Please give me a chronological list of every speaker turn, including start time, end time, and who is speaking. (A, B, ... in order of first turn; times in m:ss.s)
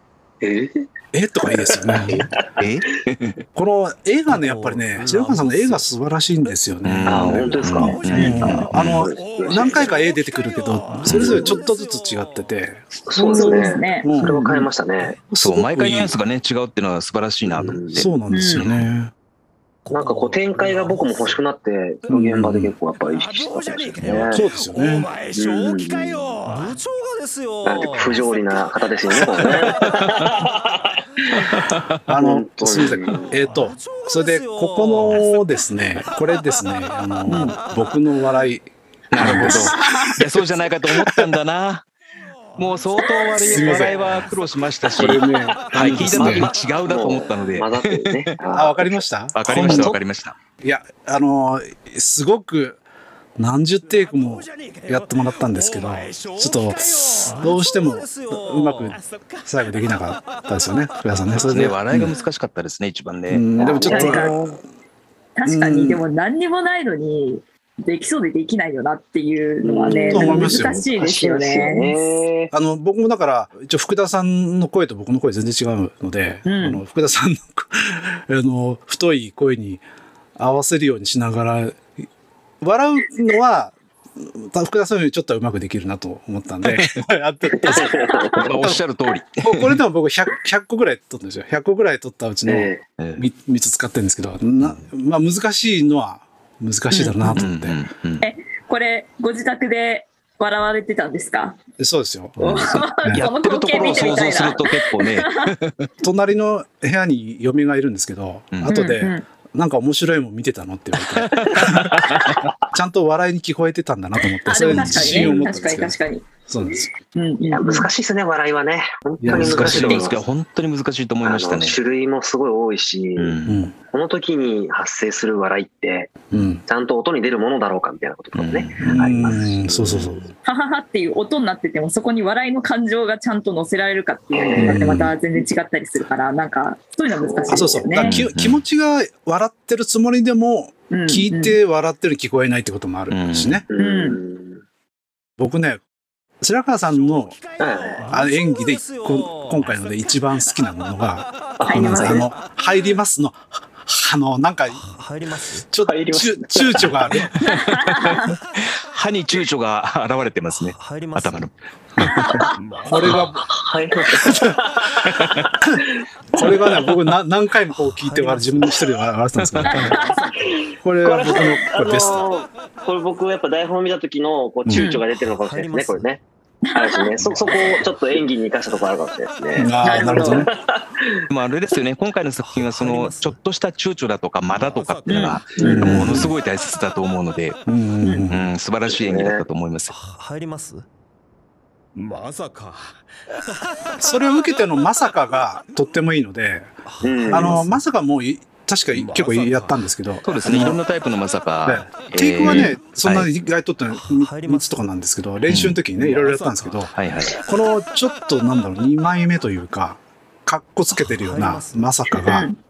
0:00.4-0:00.9 A
0:01.1-0:02.2 B
0:01.4-0:02.7 A
0:02.1-0:03.4 C
0:03.6-0:14.4 B
0:04.3-0:05.9 D
0:06.8-0:09.0 C
0:07.1-0:10.0 A
0:07.3-0:12.6 E
0:08.1-0:08.4 F
0:11.1-0:11.4 C
0:11.1-0:11.6 A
0:13.1-0:15.2 A
0:13.3-0:14.7 F
0:15.3-0:16.2 B
0:15.4-0:18.0 C
0:17.5-0:18.1 A
0:17.9-0:19.1 B
0:18.3-0:18.6 F
0:18.6-0:18.8 C
0:19.8-0:21.4 E
0:19.9-0:24.4 A
0:22.1-0:22.7 B
0:22.9-0:26.8 E
0:24.3-0:25.1 B
0:25.4-0:26.4 A
0:26.5-0:28.3 D
0:27.6-0:31.6 A
0:27.8-0:31.4 E
0:31.4-0:32.0 C
0:32.1-0:39.8 B
0:32.2-0:33.3 A
0:33.2-0:38.0 E
0:33.8-0:35.2 D
0:37.3-0:37.5 F
0:39.1-0:41.9 C
0:39.5-0:40.2 F
0:42.2-0:47.6 E
0:42.6-0:48.3 C
0:43.5-0:44.2 B
0:45.0-0:46.5 B
0:46.0-0:50.0 A
0:48.5-0:50.0 B
0:49.3-0:50.4 C
0:50.6-0:52.8 B
0:53.4-1:02.1 B
0:53.8-1:02.3 E
0:57.5-0:59.0 D
1:01.5-1:03.4 C
1:03.3-1:04.6 B
1:03.6-1:04.6 A
1:03.9-1:04.4 F
1:05.4-1:11.9 F
1:05.5-1:06.0 B
1:09.6-1:12.5 A
1:10.0-1:10.9 B
1:12.5-1:19.8 B
1:16.4-1:16.8 F
1:20.4-1:21.8 B
1:22.6-1:28.8 B
1:27.5-1:28.5 A
1:27.7-1:28.4 F
1:28.4-1:29.8 C
1:29.4-1:37.8 B
1:32.5-1:32.8 A
1:33.0-1:33.3 C
1:36.9-1:37.4 F
1:37.4-1:38.2 C
1:38.2-1:41.6 F
1:41.8-1:43.3 B
1:42.4-1:45.9 C
1:42.4-1:45.5 F
1:43.8-1:44.2 A
1:46.0-1:56.9 B
1:48.7-1:49.2 F
1:51.1-1:52.5 C
1:54.4-1:57.9 F
1:54.7-1:55.3 C
1:55.2-1:55.5 A
1:57.5-2:00.2 A
1:59.2-2:00.1 B
1:59.3-2:01.8 C
2:01.2-2:03.4 A
2:03.2-2:03.6 C
2:03.5-2:03.8 B
2:03.9-2:10.0 A
2:06.3-2:06.6 B
2:08.4-2:09.0 C
2:08.8-2:10.3 B
2:09.8-2:10.3 C
2:10.4-2:18.1 F
2:14.3-2:14.8 A
2:14.6-2:15.1 B
2:17.1-2:17.9 A
2:17.5-2:23.6 B
2:18.0-2:18.6 C
2:20.9-2:21.6 F
2:23.1-2:23.6 C
2:23.7-2:24.6 A
2:23.8-2:24.2 F
2:25.4-2:25.8 B
2:26.4-2:27.4 B
2:26.8-2:31.6 E
2:27.6-2:28.1 A
2:28.1-2:34.8 B
2:28.3-2:29.6 D
2:31.6-2:32.3 A
2:31.6-2:32.2 F
2:32.2-2:32.8 E
2:34.8-2:35.7 D
2:35.7-2:37.3 B
2:35.8-2:37.0 A
2:37.5-2:38.3 F
2:37.5-2:42.4 C
2:40.5-2:41.5 D
2:42.1-2:42.4 F
2:42.6-2:43.4 E
2:42.9-2:43.4 B
2:43.1-2:45.8 A
2:45.1-2:45.5 C
2:46.4-2:46.8 A
2:46.4-2:50.0 B
2:47.9-2:48.7 D
2:49.8-2:50.2 F
2:50.4-2:56.2 A
2:50.8-2:52.2 B
2:54.6-2:54.9 B
2:54.7-2:55.0 F
2:55.4-2:56.1 D
2:56.6-2:57.1 F
2:56.7-3:01.2 A
2:59.6-3:00.5 B
2:59.8-3:00.5 F
3:01.3-3:07.6 C
3:02.4-3:03.4 D
3:04.5-3:05.7 E
3:05.1-3:06.0 F
3:05.6-3:06.3 A
3:05.7-3:06.3 B
3:07.7-3:08.5 B
3:08.0-3:08.3 F
3:08.3-3:09.9 C
3:08.9-3:09.4 A
3:09.9-3:10.8 D
3:12.0-3:13.1 E
3:13.8-3:15.7 E
3:14.0-3:16.7 B
3:16.9-3:17.7 D
3:17.0-3:17.7 A
3:17.3-3:20.8 B
3:18.9-3:19.9 E
3:20.2-3:23.3 C
3:21.7-3:26.9 B
3:24.1-3:24.9 D
3:25.5-3:25.8 C
3:26.0-3:26.9 E
3:27.0-3:27.4 C
3:27.5-3:32.5 B
3:31.0-3:31.9 D
3:32.3-3:32.6 F